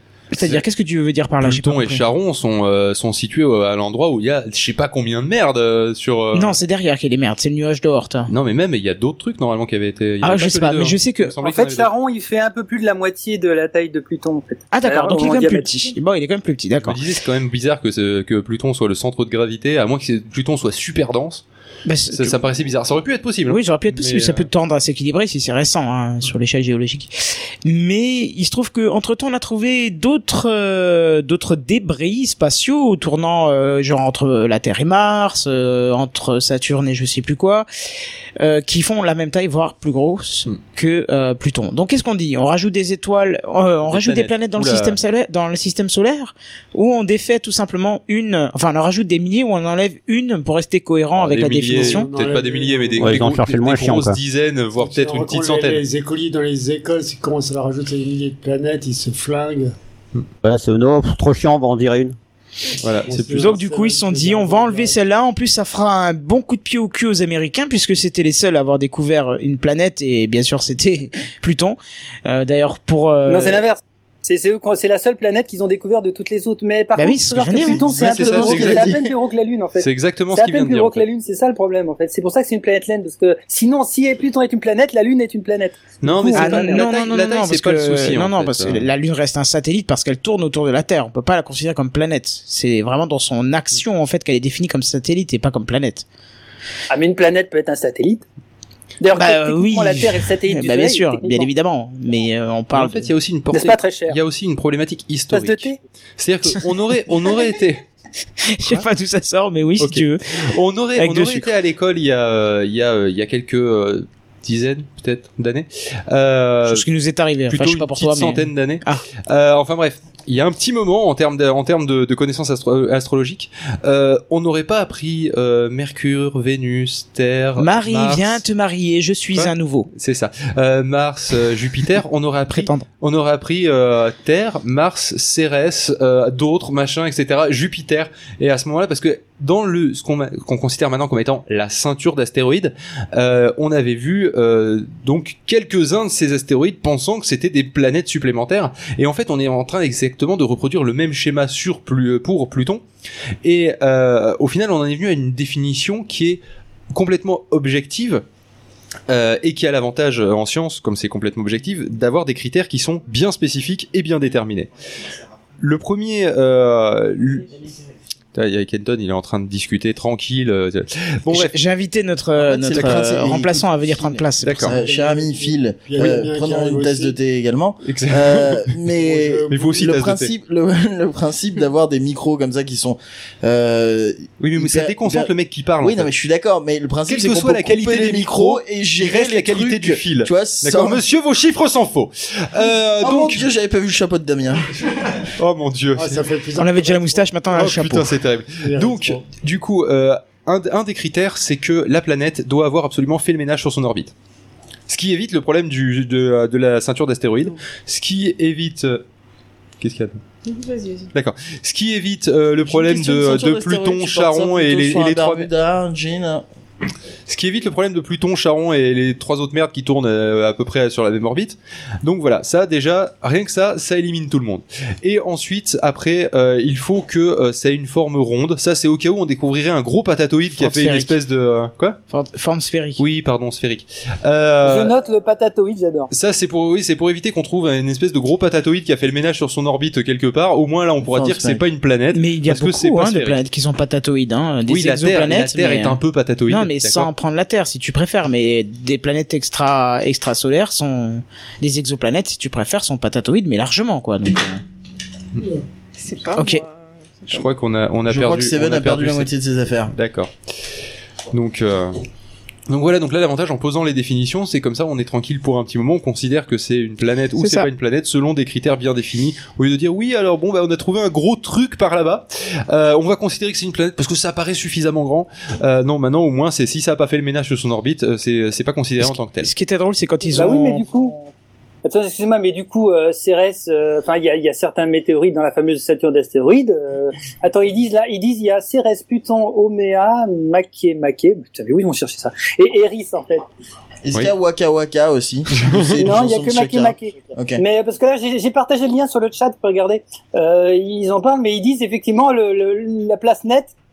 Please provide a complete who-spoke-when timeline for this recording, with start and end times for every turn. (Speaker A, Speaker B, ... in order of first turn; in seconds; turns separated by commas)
Speaker A: 0.3-2.0, Speaker B: 1.4-6.6, Speaker A: 6.3-8.3, Speaker B: 8.3-11.9, Speaker A: 10.2-11.3, Speaker C: 11.4-15.9, Speaker A: 14.7-17.0, Speaker B: 16.8-21.4, Speaker A: 21.9-22.4, Speaker B: 22.1-24.5, Speaker A: 23.5-27.1, Speaker A: 27.6-37.7, Speaker A: 38.4-52.1, Speaker B: 43.9-45.0, Speaker B: 51.2-55.8, Speaker D: 51.7-53.3, Speaker E: 53.0-54.2, Speaker D: 54.8-59.7, Speaker E: 60.4-62.1, Speaker B: 62.8-63.5, Speaker D: 63.0-65.0, Speaker A: 63.3-73.6, Speaker C: 73.3-86.9, Speaker A: 77.0-77.8, Speaker F: 77.6-79.1, Speaker B: 78.0-78.9, Speaker B: 79.8-81.0, Speaker B: 86.0-88.9, Speaker A: 86.3-96.0, Speaker C: 96.9-98.2, Speaker C: 99.0-101.5, Speaker A: 99.1-103.1, Speaker B: 102.7-107.8, Speaker C: 103.5-104.2, Speaker C: 105.3-105.8, Speaker A: 108.4-110.2, Speaker B: 109.8-116.9, Speaker A: 111.0-111.5, Speaker A: 116.7-119.0, Speaker B: 117.5-128.4, Speaker A: 127.6-129.9, Speaker B: 129.3-152.8, Speaker A: 132.5-132.8, Speaker B: 153.4-156.4, Speaker B: 156.9-158.2, Speaker B: 159.1-164.7, Speaker B: 165.6-167.6, Speaker B: 168.3-171.6, Speaker A: 171.3-174.7, Speaker F: 172.4-191.0, Speaker B: 172.7-173.0, Speaker B: 174.4-174.8, Speaker D: 174.7-177.2, Speaker B: 177.8-178.7, Speaker D: 178.9-179.9, Speaker B: 179.5-180.3, Speaker B: 184.4-186.1, Speaker B: 187.1-193.5, Speaker F: 193.0-194.7, Speaker B: 195.1-196.2, Speaker D: 196.0-197.2, Speaker A: 196.6-198.2, Speaker B: 197.5-204.1, Speaker D: 198.6-199.2, Speaker B: 204.9-209.0, Speaker B: 209.8-210.2, Speaker G: 210.4-211.1, Speaker B: 211.1-215.5, Speaker F: 212.7-216.4, Speaker B: 217.3-232.0, Speaker A: 230.6-231.2, Speaker A: 232.1-233.0, Speaker B: 233.0-234.9, Speaker C: 234.6-236.1, Speaker B: 236.1-243.4, Speaker F: 241.0-241.6, Speaker A: 242.1-254.6, Speaker B: 244.7-247.1, Speaker G: 256.0-257.4, Speaker A: 256.4-256.6, Speaker B: 257.3-259.3, Speaker F: 258.1-259.9, Speaker B: 259.9-260.3, Speaker B: 261.3-262.0, Speaker B: 262.7-279.5, Speaker A: 267.4-267.7, Speaker A: 279.0-280.9, Speaker C: 280.3-281.2, Speaker C: 281.8-293.5, Speaker F: 294.0-297.6, Speaker B: 295.6-296.0, Speaker C: 296.0-303.7